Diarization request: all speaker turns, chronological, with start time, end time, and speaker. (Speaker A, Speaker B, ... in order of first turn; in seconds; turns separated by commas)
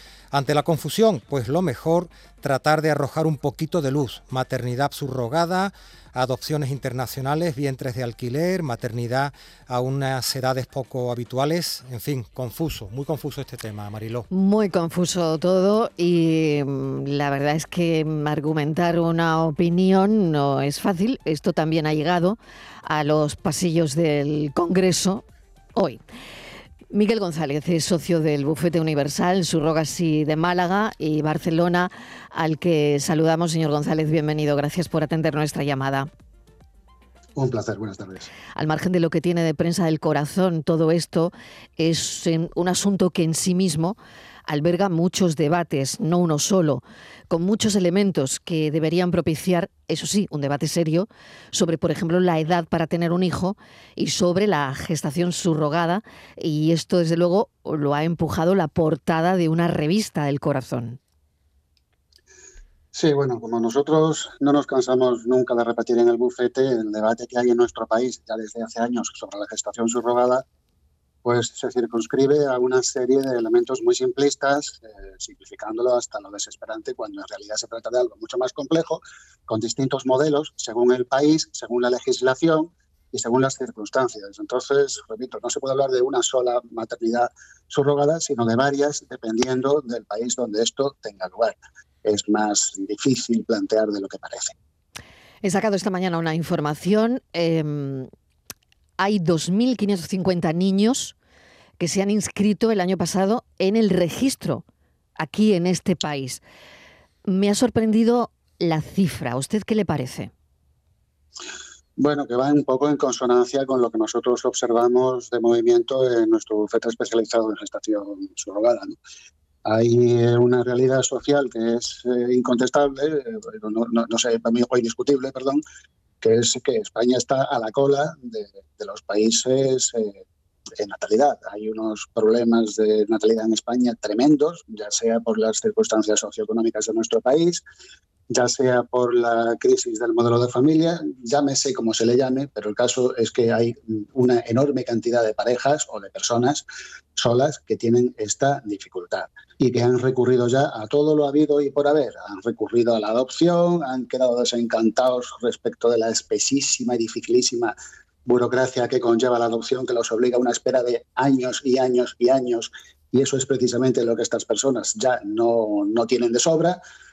Speaker A: 0.3-14.3, Speaker B: 14.3-25.2, Speaker B: 25.8-26.0, Speaker B: 26.9-36.1, Speaker C: 37.4-38.3, Speaker B: 38.6-61.0, Speaker C: 62.9-70.4, Speaker C: 71.2-94.5, Speaker B: 95.4-98.1, Speaker B: 99.0-101.2, Speaker B: 101.8-104.6, Speaker B: 105.2-106.4, Speaker B: 107.2-110.3, Speaker C: 112.0-119.0, Speaker C: 119.7-125.6, Speaker C: 126.2-130.2, Speaker C: 130.8-137.6, Speaker C: 138.3-166.8